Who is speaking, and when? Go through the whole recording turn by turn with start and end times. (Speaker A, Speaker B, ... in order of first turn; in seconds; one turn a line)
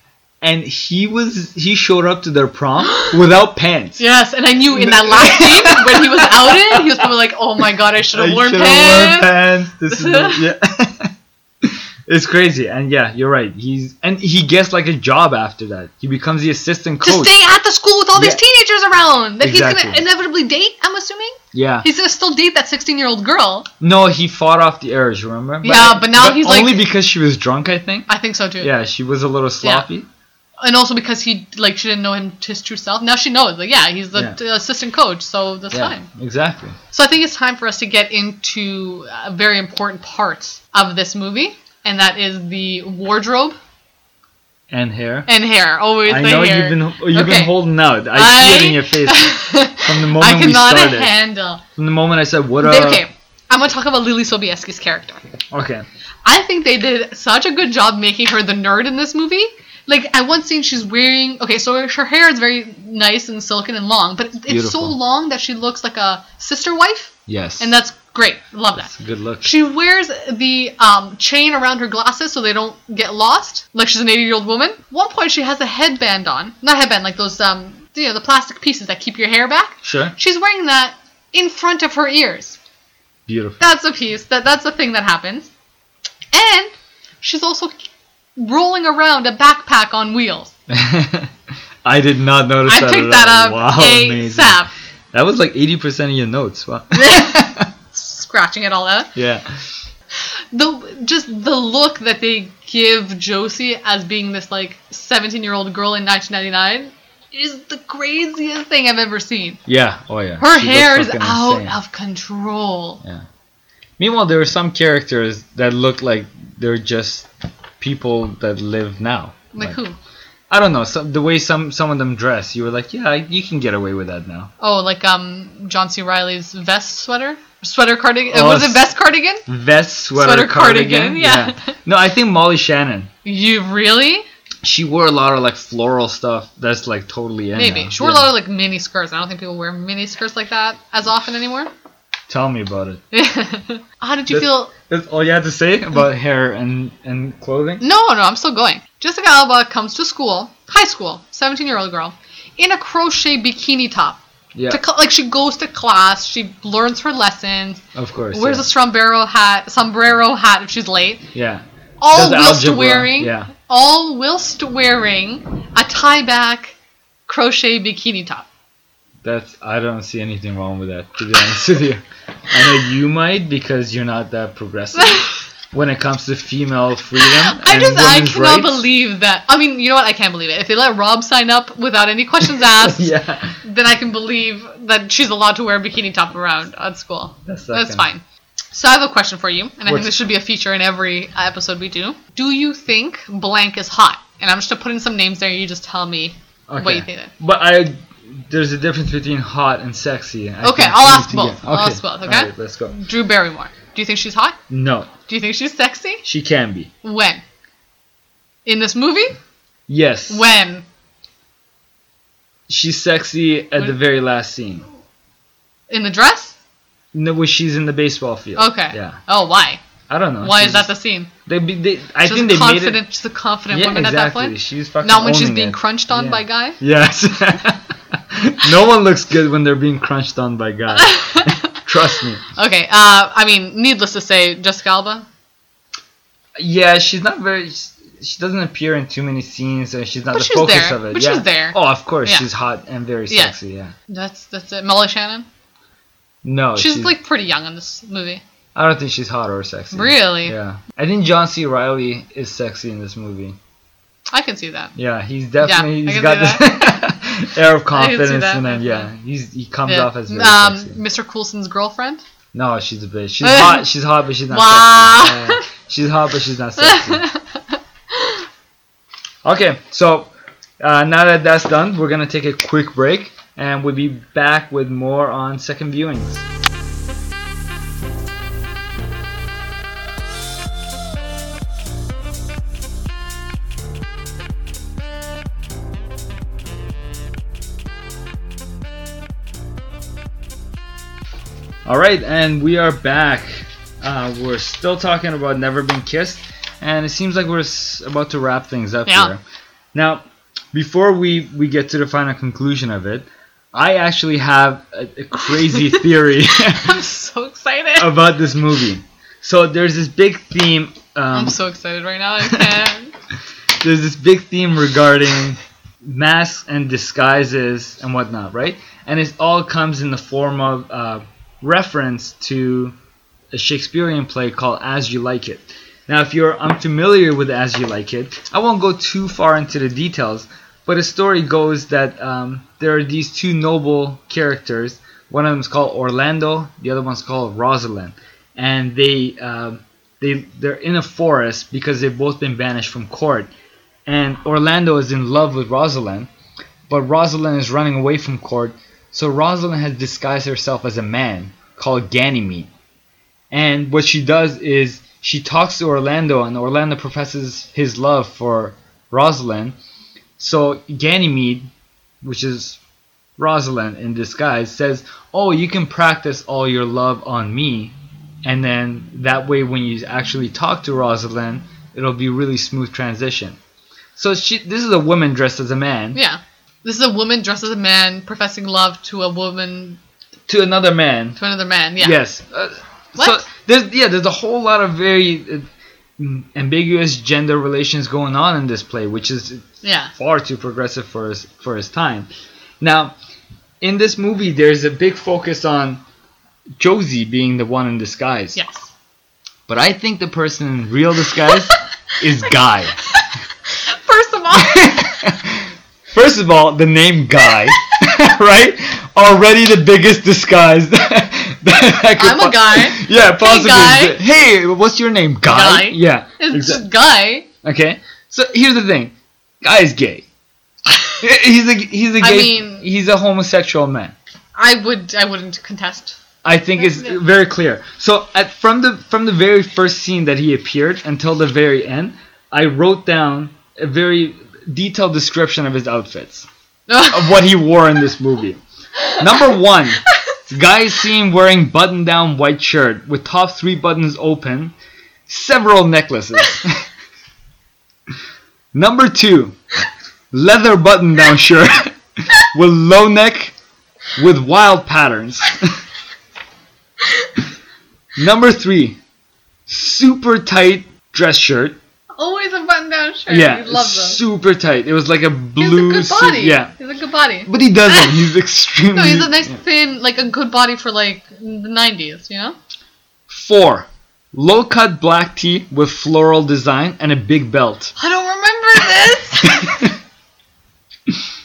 Speaker A: 0.4-4.0
Speaker B: 4.0-9.3
Speaker A: 4.7-7.1
Speaker A: 8.1-11.1
Speaker B: 9.9-10.4
Speaker A: 11.6-17.3
Speaker B: 17.0-23.7
Speaker A: 18.1-18.4
Speaker A: 19.4-20.0
Speaker A: 21.5-21.9
Speaker A: 23.8-28.1
Speaker B: 25.6-26.8
Speaker B: 28.1-28.7
Speaker A: 28.6-30.1
Speaker B: 30.6-36.1
Speaker A: 35.7-36.8
Speaker B: 36.9-43.5
Speaker A: 44.7-45.3
Speaker B: 45.3-47.6
Speaker A: 46.0-51.1
Speaker B: 48.1-51.6
Speaker A: 51.8-53.0
Speaker B: 52.6-55.2
Speaker A: 55.5-55.9
Speaker B: 56.2-82.6
Speaker A: 64.5-64.9
Speaker A: 67.3-67.7
Speaker A: 68.8-69.5
Speaker A: 79.8-80.1
Speaker A: 83.3-83.6
Speaker B: 83.6-85.5
Speaker B: 86.3-87.7
Speaker B: 88.4-90.5
Speaker A: 90.7-91.3
Speaker A: 91.8-94.6
Speaker B: 92.7-94.7
Speaker A: 95.1-97.7
Speaker B: 96.9-97.4
Speaker B: 97.9-99.1
Speaker A: 99.2-99.6
Speaker B: 100.5-109.6
Speaker A: 109.7-111.7
Speaker B: 110.4-113.0
Speaker A: 114.0-117.3
Speaker A: 117.8-119.8
Speaker B: 119.5-120.0
Speaker A: 120.5-124.5
Speaker B: 124.6-129.4
Speaker A: 128.3-128.8
Speaker A: 129.4-133.1
Speaker B: 130.1-131.7
Speaker B: 133.2-134.2
Speaker A: 134.6-138.3
Speaker B: 137.6-141.7
Speaker A: 142.3-143.0
Speaker B: 143.1-144.7
Speaker A: 144.3-147.8
Speaker B: 147.8-161.3
Speaker A: 154.5-154.8
Speaker A: 157.9-158.7
Speaker A: 161.3-163.5
Speaker B: 162.0-166.8
Speaker B: 167.3-168.4
Speaker A: 169.2-178.8
Speaker B: 175.0-175.3
Speaker B: 177.2-183.1
Speaker A: 182.4-183.6
Speaker B: 183.6-188.2
Speaker A: 187.4-188.1
Speaker B: 188.7-197.3
Speaker A: 189.8-190.1
Speaker A: 196.7-202.9
Speaker B: 200.6-204.6
Speaker A: 204.7-205.1
Speaker B: 205.3-206.2
Speaker A: 206.2-206.9
Speaker B: 207.0-207.4
Speaker B: 208.6-209.4
Speaker A: 209.9-210.5
Speaker B: 210.3-210.8
Speaker A: 212.7-214.8
Speaker B: 215.9-216.6
Speaker A: 217.1-219.2
Speaker B: 218.6-219.8
Speaker A: 220.1-220.9
Speaker B: 220.4-221.3
Speaker A: 221.4-223.0
Speaker B: 222.2-226.8
Speaker A: 223.7-232.4
Speaker B: 230.9-231.8
Speaker B: 232.5-235.2
Speaker A: 236.6-243.9
Speaker B: 240.3-242.4
Speaker B: 243.3-243.5
Speaker B: 244.1-245.5
Speaker A: 246.4-247.1
Speaker B: 246.8-248.4
Speaker A: 248.7-253.6
Speaker B: 249.9-250.6
Speaker B: 254.3-254.9
Speaker A: 254.9-261.0
Speaker B: 255.6-257.0
Speaker B: 257.9-259.1
Speaker B: 259.9-262.2
Speaker A: 262.5-267.2
Speaker B: 263.4-263.8
Speaker B: 264.5-265.6
Speaker B: 266.8-268.4
Speaker A: 269.4-276.4
Speaker A: 291.8-299.4
Speaker B: 299.1-299.3
Speaker A: 299.9-307.0
Speaker B: 306.7-308.2
Speaker A: 308.0-311.6
Speaker B: 311.3-313.1
Speaker A: 312.4-312.7
Speaker A: 313.8-322.9
Speaker A: 323.5-343.5
Speaker A: 344.1-346.3
Speaker A: 346.9-352.7
Speaker A: 353.5-359.8
Speaker A: 360.4-361.7
Speaker A: 362.2-362.8
Speaker A: 363.4-373.6
Speaker A: 374.1-376.2
Speaker B: 376.1-380.0
Speaker A: 380.5-381.4
Speaker B: 381.4-382.2
Speaker A: 382.0-392.3
Speaker B: 383.2-383.4
Speaker B: 389.8-390.1
Speaker A: 392.8-393.1
Speaker A: 393.8-396.0
Speaker A: 396.8-398.6
Speaker B: 398.5-398.9
Speaker A: 399.7-403.0
Speaker B: 403.1-405.2
Speaker A: 404.5-416.8
Speaker B: 412.1-414.2
Speaker B: 415.4-417.5
Speaker A: 417.6-420.2
Speaker A: 421.2-424.1
Speaker B: 422.2-422.8
Speaker B: 424.6-426.2
Speaker A: 426.4-436.5
Speaker B: 426.8-427.1
Speaker B: 436.9-437.3
Speaker A: 437.1-438.6
Speaker A: 439.1-444.7
Speaker A: 445.3-446.8
Speaker A: 448.7-449.6
Speaker A: 450.3-453.5
Speaker A: 454.1-455.8
Speaker B: 457.0-457.4
Speaker A: 458.2-459.0
Speaker A: 459.7-461.8
Speaker B: 462.1-464.2
Speaker A: 463.3-466.7
Speaker B: 465.6-468.2
Speaker A: 467.4-469.6
Speaker B: 468.9-472.6
Speaker A: 473.3-477.9
Speaker B: 478.0-479.8
Speaker A: 479.4-479.9